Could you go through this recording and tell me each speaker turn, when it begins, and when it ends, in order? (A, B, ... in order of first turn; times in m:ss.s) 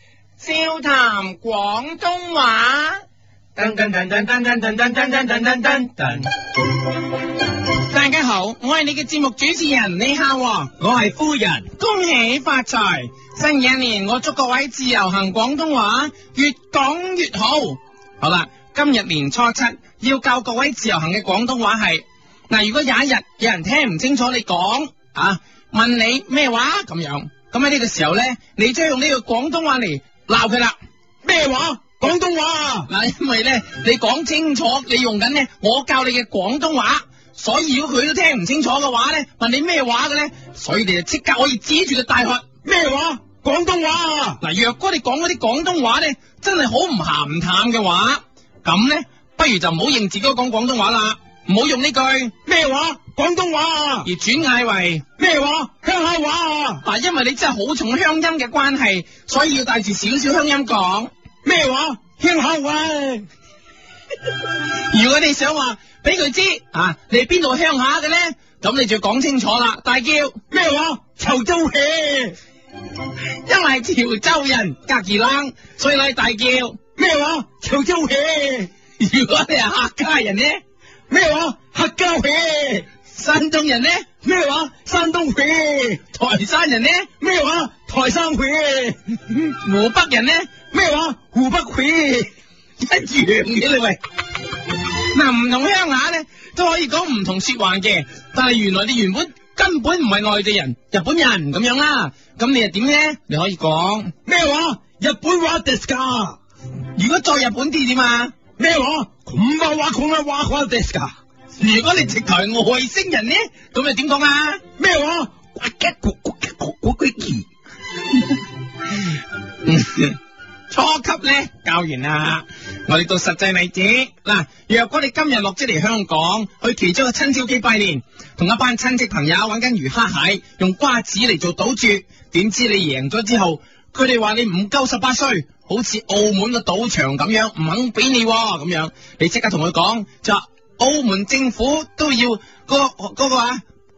0:00.4-0:03.0 A
0:04.6-0:05.2 A
0:07.8-0:30.8 A
0:31.2-0:32.9 B
0:32.9-0:42.4 A
0:42.6-0:44.4 B
0:44.4-0:52.3 A
0:52.5-0:54.1 B
0:54.0-0:55.0 A
0:55.2-0:56.8 B
0:56.8-1:01.1 A
1:01.4-1:03.3 B
1:04.9-1:10.4 A
1:10.5-1:12.4 B
1:13.4-1:16.8 A
1:17.0-1:18.7 B
1:19.0-1:20.6 A
1:21.1-1:22.8 B
1:23.1-1:24.1 A
1:24.2-1:26.0 B
1:26.1-1:27.1 A
1:27.2-1:28.9 B
1:29.3-1:30.6 A
1:30.7-1:32.3 B
1:32.8-1:34.0 A
1:35.0-1:44.1 A
1:44.2-1:46.4 B
1:46.9-1:48.4 A
1:48.6-1:51.1 B
1:51.6-1:54.6 A
1:54.8-1:57.4 B
1:59.6-2:00.2 A
2:00.7-2:23.6 A